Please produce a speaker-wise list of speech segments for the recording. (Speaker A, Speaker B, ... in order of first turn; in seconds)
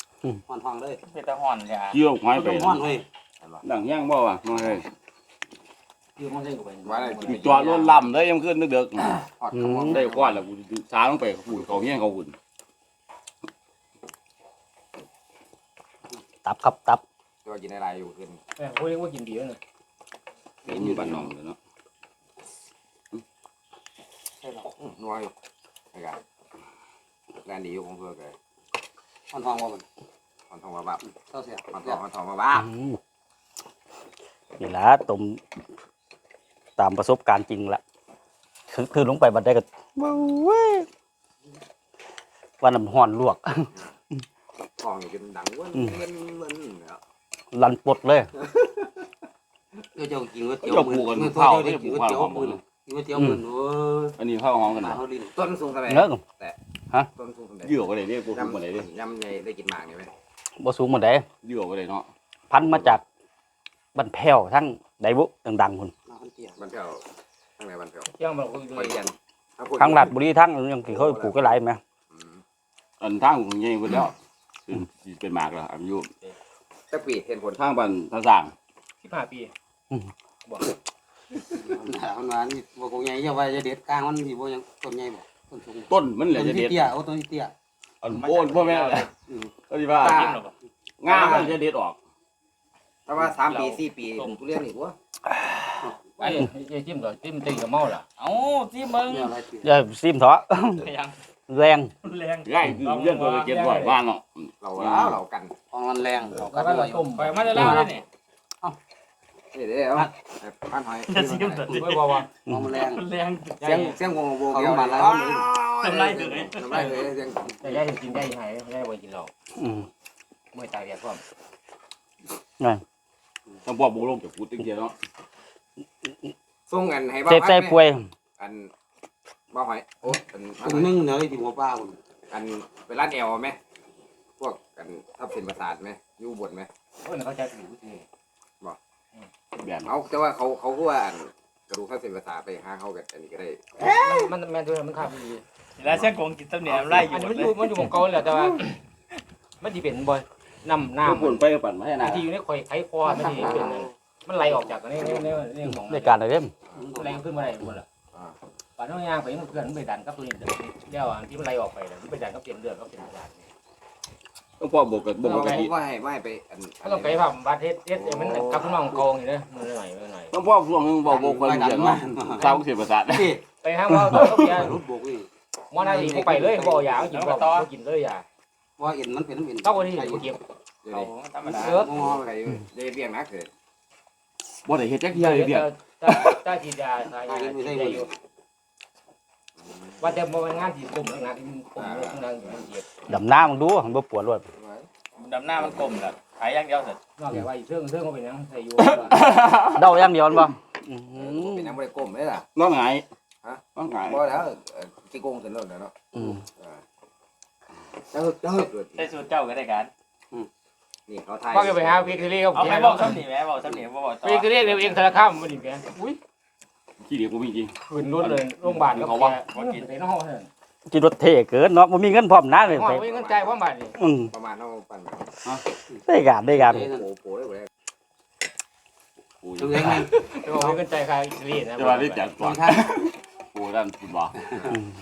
Speaker A: 0.5-1.0, 2.3-3.0, 29.3-29.8, 31.0-32.0, 49.9-54.1, 54.8-55.3, 66.1-66.5, 81.6-87.5, 89.3-89.5, 95.8-96.4, 99.0-99.7, 105.7-107.8, 111.7-113.0, 114.3-115.5, 130.6-132.0, 156.8-157.2, 171.1-173.4, 174.1-175.3, 175.8-176.9, 178.8-180.3, 181.7-182.4, 187.2-188.1, 226.6-227.1, 229.6-230.6, 232.4-232.8, 234.4-234.7
Speaker B: 1.1-2.0, 88.1-89.1, 90.0-90.5, 93.5-94.4, 98.2-99.3, 100.8-101.2, 102.0-103.5, 107.2-108.0, 111.1-113.9, 115.2-117.1, 145.8-147.8, 177.1-177.7, 180.9-181.9, 195.2-197.0, 208.9-209.9, 212.5-215.1, 219.5-219.8
Speaker C: 1.9-2.9, 3.6-4.9, 7.2-9.2, 9.8-12.4, 20.6-21.6, 50.6-52.6, 54.2-55.0, 57.6-58.9, 61.4-62.1, 62.7-63.0, 73.0-74.1, 74.7-76.1, 77.5-78.5, 85.9-86.9, 88.0-89.1, 89.7-90.4, 91.0-92.0, 102.4-105.2, 123.7-124.9, 139.6-139.9, 151.0-152.3, 164.6-165.7, 170.3-173.4, 174.2-174.6, 184.6-186.4, 199.0-199.9, 202.5-203.1, 203.8-204.2, 217.0-219.4, 229.4-230.2, 231.8-234.3
Speaker D: 6.2-7.7, 18.6-19.6, 68.2-69.0, 79.0-79.5, 80.5-80.7, 96.2-98.0, 103.5-104.0, 106.4-107.8, 111.8-112.3, 113.6-114.0, 117.6-119.3, 120.5-121.2, 137.0-138.0, 143.8-145.4, 146.8-148.8, 149.6-151.4, 152.0-156.2, 156.9-157.9, 158.8-163.5, 165.2-165.7, 166.8-170.3, 173.5-174.8, 175.7-178.2, 179.6-180.4, 181.5-181.9, 185.1-188.1, 190.0-192.9, 197.2-199.2, 211.5-213.2, 214.2-216.2, 217.8-220.5, 222.6-223.9, 230.3-232.3
Speaker E: 6.8-8.0, 9.4-10.4, 11.5-11.8, 17.4-18.4, 20.7-21.3, 24.6-25.3, 25.9-26.2, 27.4-28.4, 30.5-31.0, 31.7-32.7, 44.8-47.0, 48.4-49.0, 55.3-56.6, 57.1-57.8, 58.3-60.1, 66.6-67.0, 67.6-68.1, 68.8-70.1, 70.9-71.6, 72.1-72.4, 76.9-77.6, 90.0-90.4, 91.1-91.5, 93.0-95.0, 104.6-105.5, 109.5-111.8, 113.6-117.8, 126.7-127.8, 128.4-128.7, 129.5-131.0, 132.3-133.6, 134.4-136.7, 139.8-143.8, 165.2-167.2, 168.2-168.6, 180.8-183.5, 189.6-190.2, 191.8-192.7, 194.6-194.9, 201.1-202.4, 203.4-205.9, 206.5-206.8, 208.1-209.0, 211.1-212.6, 222.9-223.6, 224.3-225.3, 226.9-227.7
Speaker F: 9.5-10.0, 16.4-17.0, 32.5-33.0, 34.6-35.4, 36.8-37.8, 38.7-40.9, 42.6-43.7, 47.5-48.3, 53.1-53.4, 55.9-56.2, 60.6-61.2, 62.5-63.0, 63.9-65.9, 69.8-71.8, 99.6-100.9, 101.5-101.9, 119.5-119.9, 127.3-128.1, 155.6-156.5, 193.1-194.4, 199.5-201.8, 206.1-206.4, 220.9-223.0, 224.0-224.3, 226.1-226.9